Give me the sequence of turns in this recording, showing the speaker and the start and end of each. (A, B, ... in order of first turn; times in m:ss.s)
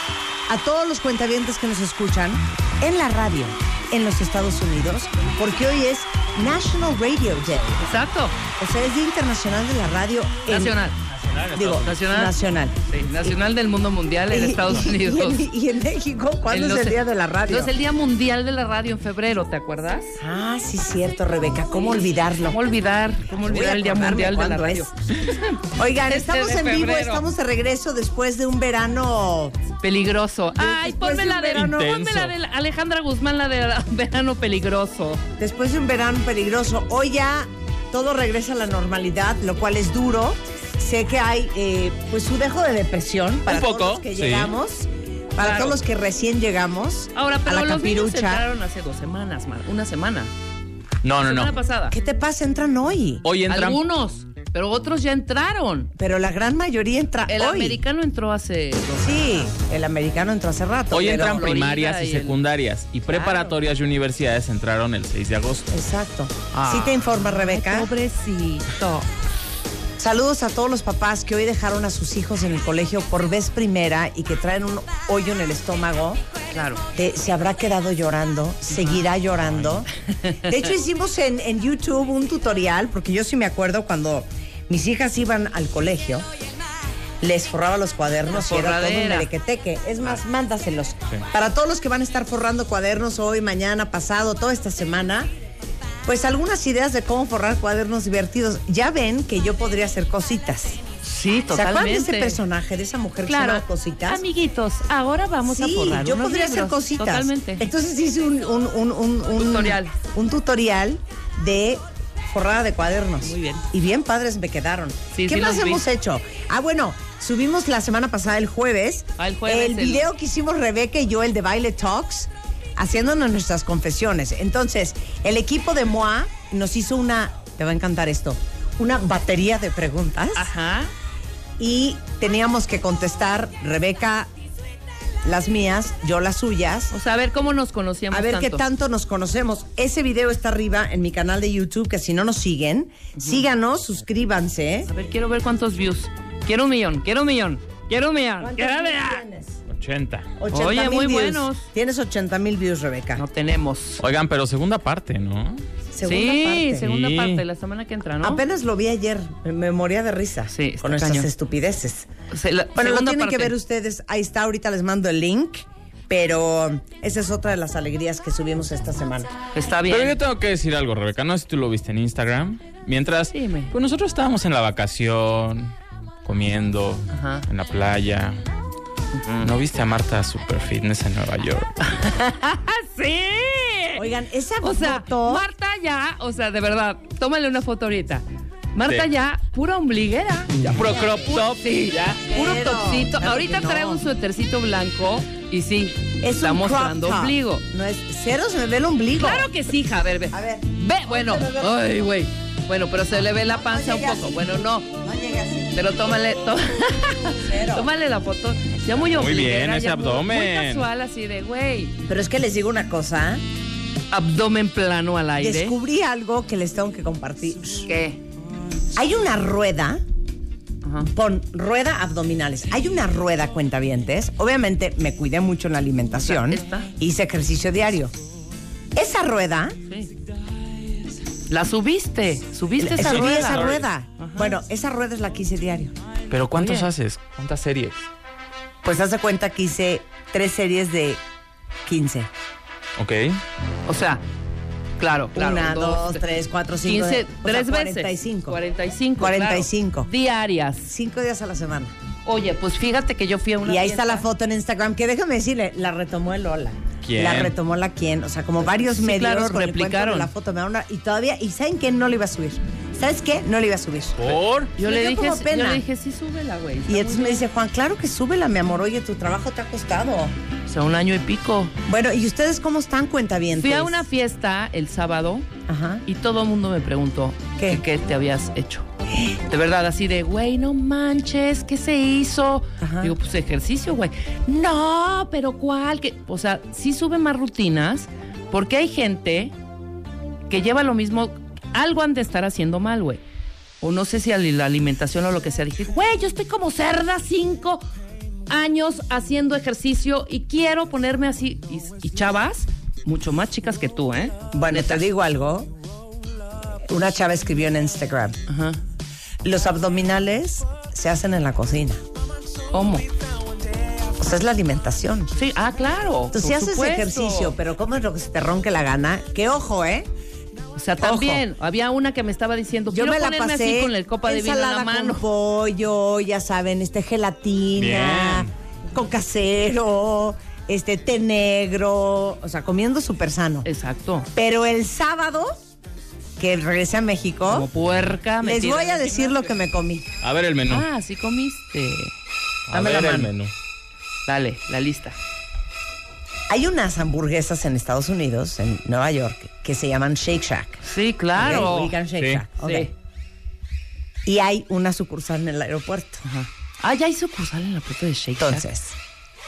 0:00.5-0:07.8 A
0:07.8-0:08.4 B
0:08.6-0:10.8 A
0:10.5-0:11.0 B
0:11.0-0:12.0 C
0:11.5-0:13.3 A
0:11.8-0:12.3 B
0:12.9-0:15.5 B
0:14.3-0:17.7 A
0:16.5-0:20.2 B
0:20.2-0:22.6 A
0:22.4-0:27.2 B
0:23.4-0:24.9 A
0:25.8-0:29.6 A
0:29.8-0:35.2 B
0:30.5-0:31.8 A
0:31.5-0:32.3 C
0:35.4-0:48.4 A
0:43.4-0:44.5 C
0:45.4-0:45.8 B
0:47.1-0:50.3 B
0:51.0-0:51.6 C
0:51.2-0:52.0 B
0:51.9-0:53.2 A
0:53.2-0:53.8 C
0:53.5-0:55.9 B
0:56.0-0:57.8 A
0:57.3-0:59.5 B
0:59.0-1:01.4 A
1:00.9-1:05.7 C
1:01.2-1:02.4 B
1:03.1-1:03.5 B
1:05.7-1:07.9 A
1:06.5-1:09.1 B
1:10.0-1:16.2 A
1:16.5-1:16.8 B
1:16.9-1:19.9 A
1:18.7-1:19.0 B
1:19.4-1:19.8 C
1:20.4-1:26.2 A
1:27.2-1:35.3 A
1:28.3-1:29.3 B
1:36.0-1:40.8 A
1:41.0-1:42.4 B
1:41.5-1:44.2 A
1:43.2-1:47.6 B
1:45.4-2:10.5 A
1:49.4-1:49.9 B
1:53.2-1:53.6 B
1:55.1-1:55.8 B
1:59.2-2:00.1 B
2:10.4-2:10.9 B
2:11.6-2:14.3 A
2:15.2-2:16.9 A
2:16.9-2:18.6 B
2:18.1-2:24.9 A
2:23.2-2:23.4 B
2:24.9-2:29.2 B
2:28.4-2:29.6 A
2:29.7-2:30.3 C
2:30.4-2:33.2 A
2:30.5-2:31.6 B
2:33.2-2:34.0 B
2:34.0-2:35.6 C
2:35.9-2:36.8 A
2:36.0-2:38.4 B
2:36.8-2:37.4 C
2:38.2-2:42.1 A
2:40.5-2:41.3 B
2:42.3-2:43.5 B
2:42.7-2:49.3 A
2:49.5-2:50.2 B
2:49.9-2:55.7 C
2:53.3-2:53.7 B
2:56.2-2:58.4 C
2:57.1-2:57.4 B
2:59.1-2:59.5 B
2:59.4-3:01.7 C
3:01.8-3:04.0 B
3:03.9-3:05.5 A
3:04.6-3:17.6 B
3:10.5-3:11.4 A
3:10.7-3:12.2 C
3:12.2-3:14.0 A
3:16.2-3:19.5 A
3:19.2-3:24.9 B
3:20.3-3:22.1 A
3:23.2-3:26.0 A
3:25.7-3:31.9 B
3:27.3-3:27.9 A
3:29.1-3:30.9 C
3:32.0-3:33.4 A
3:34.1-3:35.8 B
3:35.4-3:37.9 A
3:37.8-3:38.2 B
3:38.9-3:40.0 A
3:40.8-3:41.1 B
3:41.0-3:48.1 A
3:46.2-3:46.9 B
3:48.9-3:49.8 A
3:51.5-3:54.6 B
3:52.8-3:55.9 A
3:53.0-3:53.9 C
3:56.3-3:58.0 C
3:56.5-3:56.9 B
3:58.8-4:01.2 A
4:01.8-4:02.3 A
4:03.0-4:03.4 C
4:03.9-4:04.2 B
4:05.0-4:06.2 B
4:05.3-4:08.6 A
4:06.8-4:10.9 B
4:09.2-4:10.1 A
4:10.8-4:11.9 A
4:12.2-4:14.2 B
4:13.6-4:25.8 A
4:17.0-4:17.5 C
4:18.6-4:20.3 B
4:24.2-4:24.7 C
4:24.8-4:27.4 B
4:26.9-4:30.3 A
4:30.6-4:31.7 B
4:31.8-4:34.0 A
4:33.6-4:35.5 B
4:35.7-4:36.0 A
4:36.0-4:49.5 B
4:37.6-4:37.8 A
4:42.8-4:43.1 A
4:50.5-4:53.2 B
4:53.8-4:57.8 B
4:58.5-5:05.1 B
5:04.5-5:05.7 A
5:06.9-5:08.4 A
5:08.5-5:08.8 B
5:09.4-5:12.0 A
5:12.7-5:13.1 B
5:14.2-5:15.3 A
5:15.3-5:17.6 B
5:16.3-5:20.1 A
5:20.7-5:25.2 B
5:21.0-5:21.4 A
5:22.9-5:33.7 A
5:27.8-5:28.5 C
5:33.6-5:34.3 B
5:34.3-5:35.5 A
5:36.4-5:37.7 A
5:37.5-5:39.5 B
5:38.4-5:40.1 A
5:40.2-5:40.8 C
5:40.7-5:42.1 B
5:42.7-5:43.5 C
5:42.7-5:43.3 A
5:44.2-5:45.2 B
5:46.5-5:50.8 A
5:50.8-5:52.0 B
5:51.3-5:52.9 A
5:52.2-5:52.4 C
5:52.6-5:52.9 B
5:54.2-5:56.2 A
5:56.2-5:58.6 B
5:58.4-5:59.0 A